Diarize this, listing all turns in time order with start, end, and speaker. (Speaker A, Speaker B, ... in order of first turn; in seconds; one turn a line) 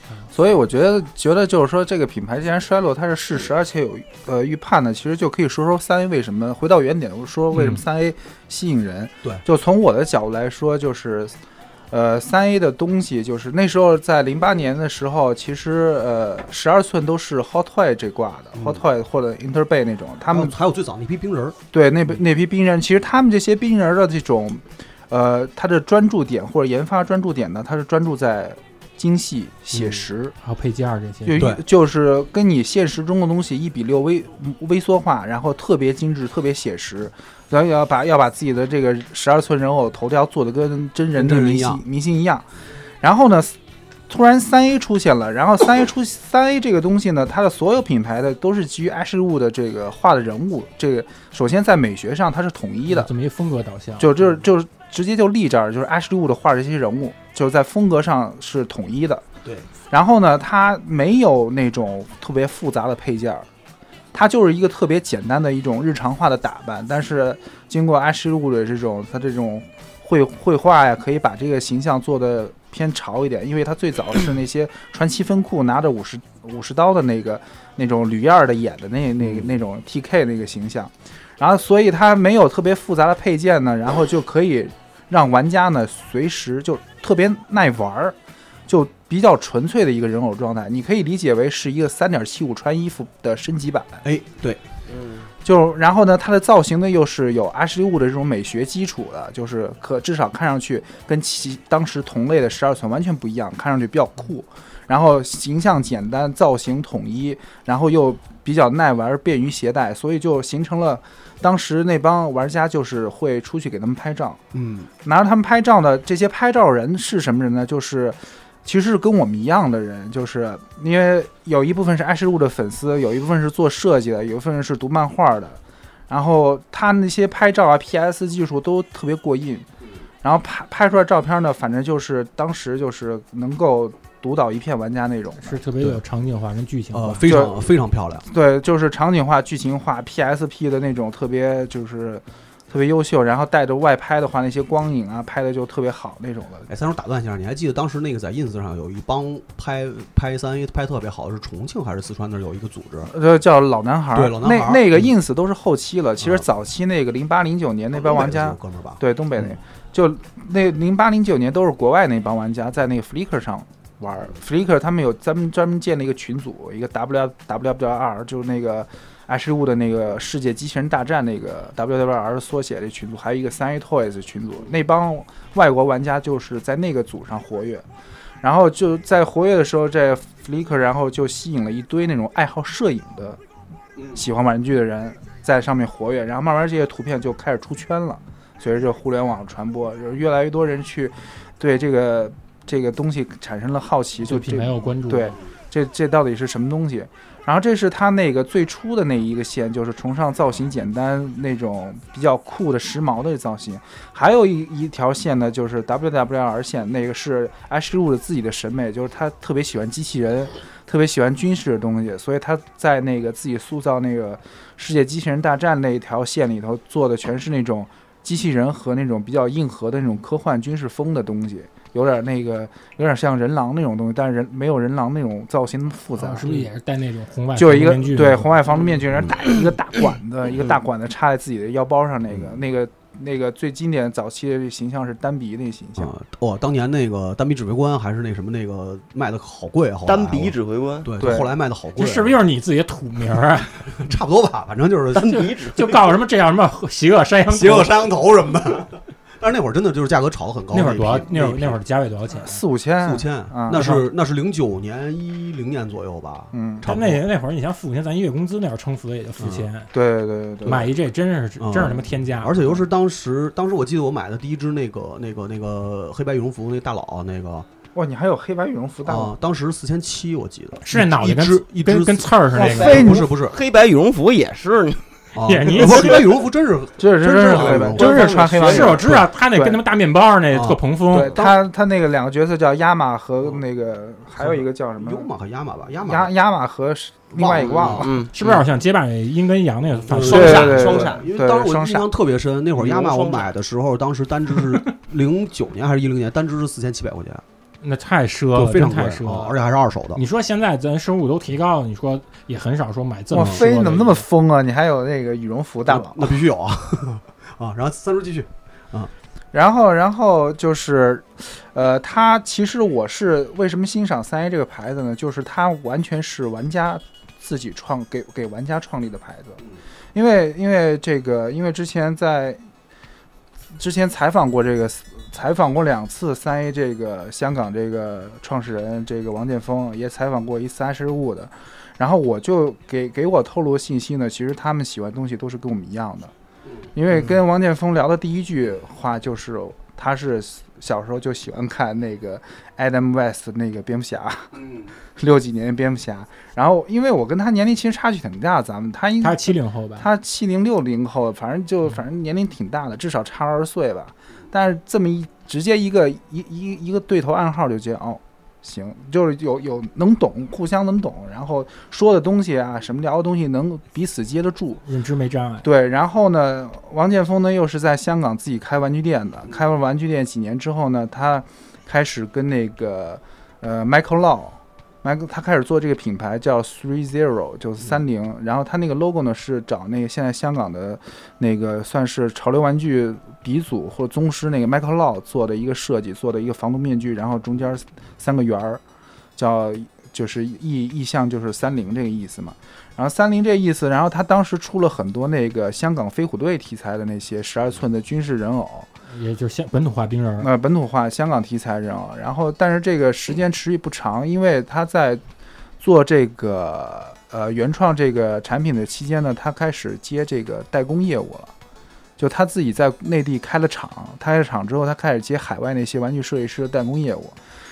Speaker A: 0.3-11.3
Speaker A: 11.9-20.5
Speaker B: 18.6-18.8
Speaker B: 20.3-21.6
Speaker A: 21.7-30.4
Speaker B: 29.7-30.0
Speaker C: 30.4-31.5
Speaker A: 31.2-42.5
Speaker B: 31.4-31.6
Speaker B: 41.1-41.8
Speaker A: 43.0-43.5
Speaker A: 44.1-53.1
Speaker C: 52.9-54.1
Speaker A: 54.0-59.2
Speaker A: 59.9-63.5
Speaker A: 64.1-88.2
Speaker B: 79.2-79.5
Speaker A: 88.7-94.0
Speaker B: 94.0-94.6
Speaker D: 94.9-95.3
Speaker A: 95.5-114.4
Speaker B: 114.5-114.9
Speaker A: 115.0-129.7
Speaker A: 130.2-135.6
Speaker C: 135.4-137.3
Speaker B: 136.9-138.2
Speaker A: 137.3-137.7
Speaker A: 138.2-146.7
Speaker B: 146.7-153.1
Speaker A: 153.1-177.8
Speaker B: 154.1-155.1
Speaker B: 156.2-156.5
Speaker B: 157.9-159.6
Speaker A: 178.4-183.4
Speaker A: 184.1-226.6
Speaker C: 194.2-195.4
Speaker C: 226.2-228.5
Speaker A: 227.6-236.1
Speaker B: 236.0-242.3
Speaker D: 240.1-241.1
Speaker A: 241.2-241.5
Speaker C: 242.0-243.9
Speaker B: 244.0-245.4
Speaker D: 245.2-245.9
Speaker C: 245.2-247.9
Speaker B: 247.5-251.8
Speaker C: 250.7-252.6
Speaker A: 252.3-254.0
Speaker B: 253.0-257.2
Speaker A: 256.5-256.9
Speaker C: 256.9-259.9
Speaker B: 259.4-259.7
Speaker A: 259.9-260.9
Speaker C: 260.6-262.8
Speaker B: 261.6-267.7
Speaker A: 267.9-269.3
Speaker B: 269.1-273.6
Speaker C: 270.8-273.1
Speaker D: 272.6-275.1
Speaker A: 272.6-273.2
Speaker B: 275.3-279.2
Speaker C: 275.4-276.4
Speaker A: 277.0-279.8
Speaker C: 277.5-281.4
Speaker B: 280.5-280.8
Speaker A: 281.1-285.3
Speaker B: 284.4-286.3
Speaker A: 286.0-288.2
Speaker B: 287.4-288.6
Speaker D: 287.8-288.3
Speaker C: 288.3-290.9
Speaker B: 290.0-297.4
Speaker D: 290.2-291.3
Speaker A: 290.2-292.1
Speaker D: 292.8-293.5
Speaker C: 297.8-299.6
Speaker B: 298.5-300.2
Speaker C: 300.1-304.3
Speaker A: 303.3-306.4
Speaker B: 303.4-303.6
Speaker B: 305.9-309.1
Speaker A: 309.5-322.6
Speaker A: 323.8-336.3
Speaker A: 336.9-364.8
Speaker C: 349.2-350.1
Speaker C: 364.9-365.7
Speaker A: 365.6-388.8
Speaker A: 389.4-398.9
Speaker C: 399.1-400.5
Speaker A: 400.4-405.2
Speaker A: 405.8-411.5
Speaker A: 412.2-417.4